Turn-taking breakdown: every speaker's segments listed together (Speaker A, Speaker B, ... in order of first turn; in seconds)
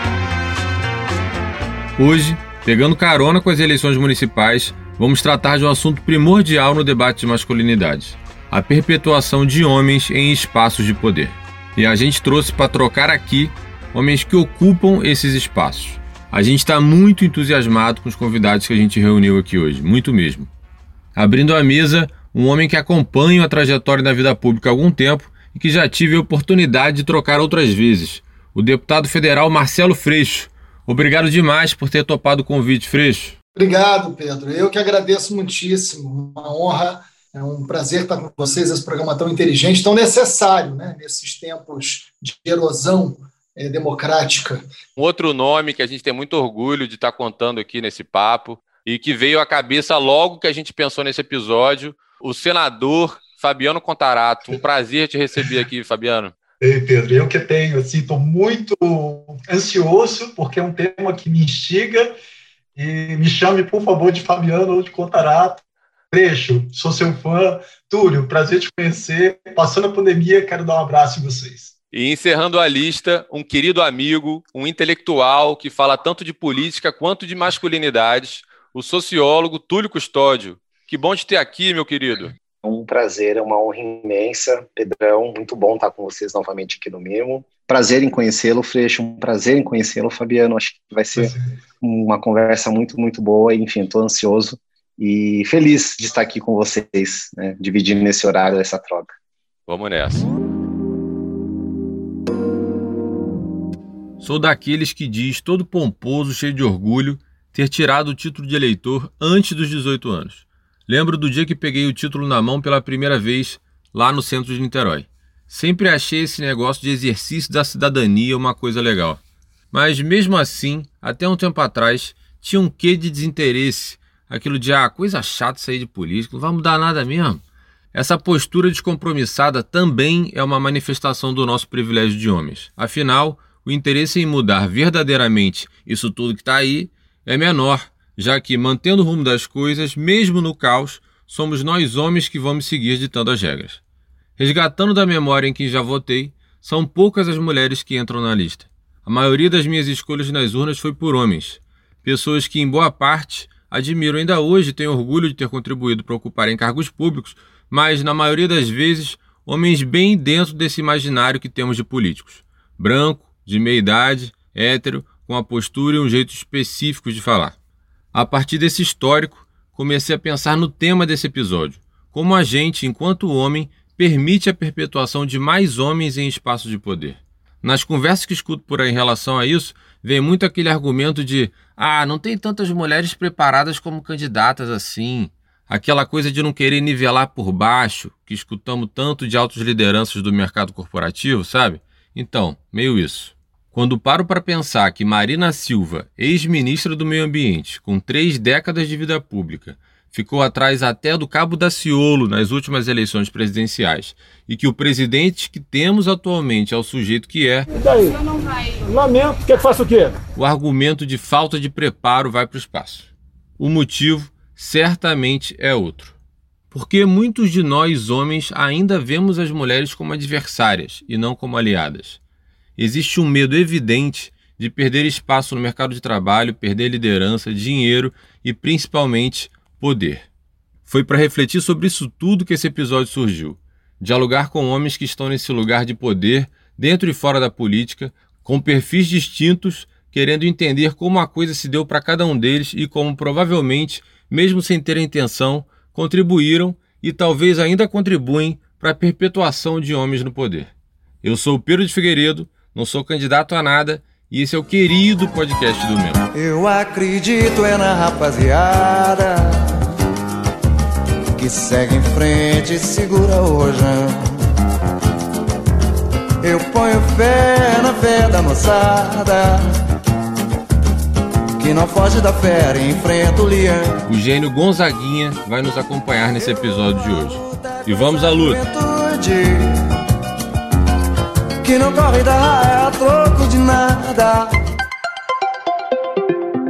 Speaker A: 2.0-20.5, 21.1-33.4, 45.0-56.4, 71.9-82.3, 99.7-100.3, 104.2-119.2, 119.7-127.4, 127.9-143.8, 144.4-167.6, 168.1-207.7, 210.3-216.2, 216.7-222.2, 222.8-230.3, 230.9-250.7, 251.2-256.3, 274.1-278.6
Speaker B: 33.6-44.6
Speaker C: 56.6-62.1, 62.8-71.7
Speaker D: 82.6-99.1
Speaker E: 207.7-210.2
Speaker F: 256.3-259.8, 261.4-264.4, 266.4-269.7, 271.6-274.1, 276.4-279.8, 281.6-284.5